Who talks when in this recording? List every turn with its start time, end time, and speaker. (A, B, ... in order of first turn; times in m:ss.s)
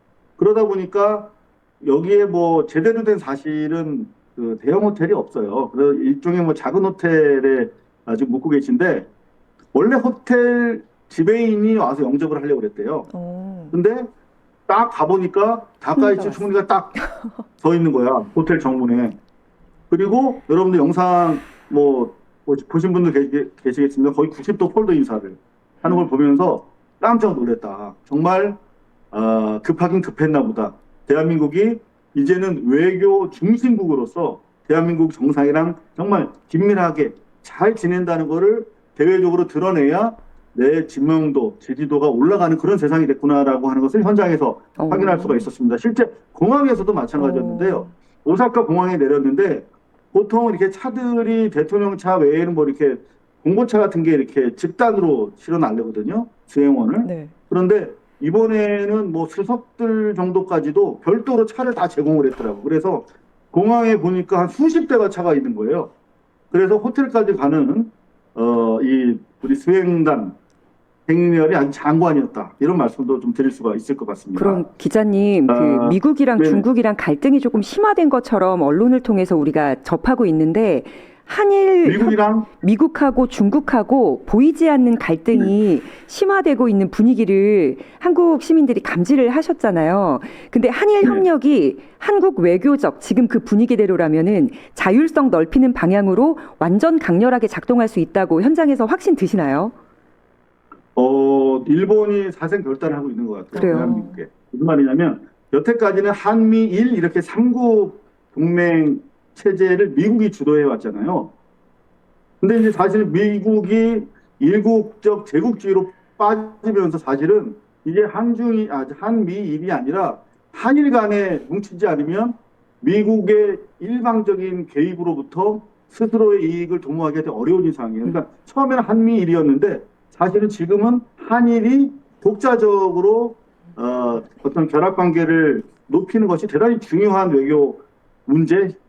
0:00.4-0:09.1 A
0:09.7-0:13.1 A
0:13.1-0:13.7 B
0:13.7-0:14.1 A
0:14.7-0:17.0 A
0:15.9-0:16.4 B
0:17.6-0:19.2 A
0:19.9-0:28.6 A
0:29.1-1:05.9 A
0:44.8-0:45.4 C
0:47.2-0:47.7 C
0:47.2-0:47.8 B
0:57.0-0:57.3 B
1:06.5-1:10.4 A
1:11.1-1:14.6 A
1:14.3-1:39.7 C
1:15.5-1:16.6 A
1:21.8-1:22.5 A
1:41.0-1:51.3 A
1:43.5-1:44.2 C
1:43.7-1:44.0 B
1:52.4-2:18.7 A